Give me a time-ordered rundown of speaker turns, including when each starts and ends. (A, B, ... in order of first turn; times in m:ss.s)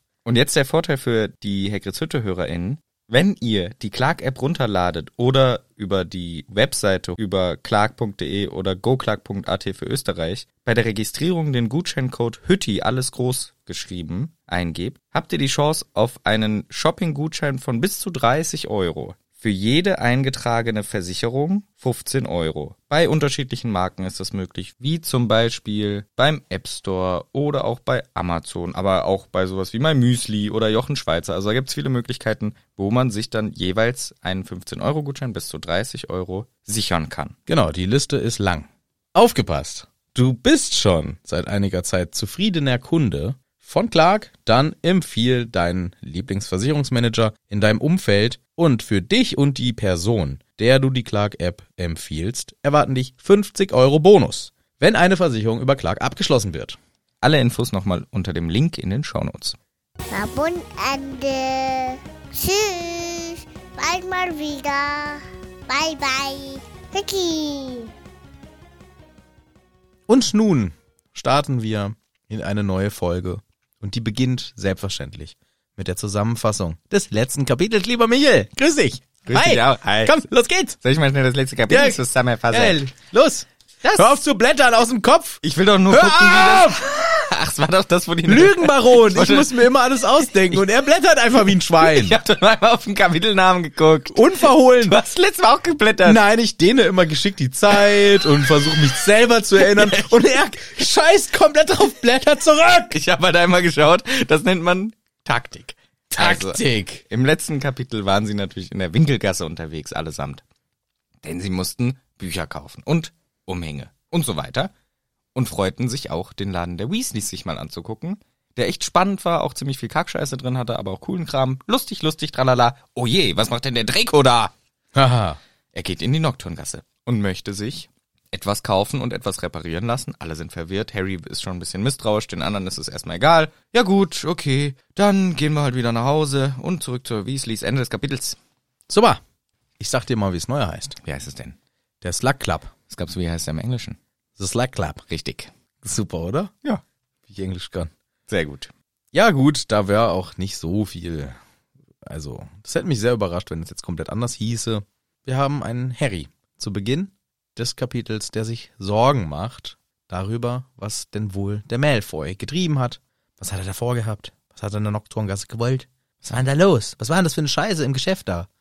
0:00.2-0:37.4 A
0:37.5-0:56.8 B
0:57.2-0:59.6 A
1:00.1-1:07.9 C
1:10.1-1:20.8 B
1:19.3-1:20.2 A
1:20.8-1:22.8 A
1:21.7-1:26.9 B
1:23.8-1:24.2 A
1:25.4-1:30.6 A
1:28.3-1:32.2 B
1:31.7-1:36.2 A
1:34.1-1:35.0 B
1:36.0-1:43.0 B
1:37.7-1:38.8 A
1:39.6-1:40.2 A
1:42.9-1:50.4 A
1:46.1-1:47.0 B
1:51.2-1:54.7 A
1:55.3-2:04.5 A
2:05.0-2:05.4 B
2:05.7-2:18.4 A
2:18.9-2:19.2 B
2:19.8-2:21.0 B
2:21.0-2:21.6 A
2:22.0-2:22.7 B
2:22.9-2:24.0 A
2:24.4-2:25.0 B
2:25.1-2:25.5 A
2:25.8-2:26.5 B
2:27.3-2:27.9 B
2:28.3-2:28.7 A
2:29.1-2:31.4 B
2:32.1-2:48.5 B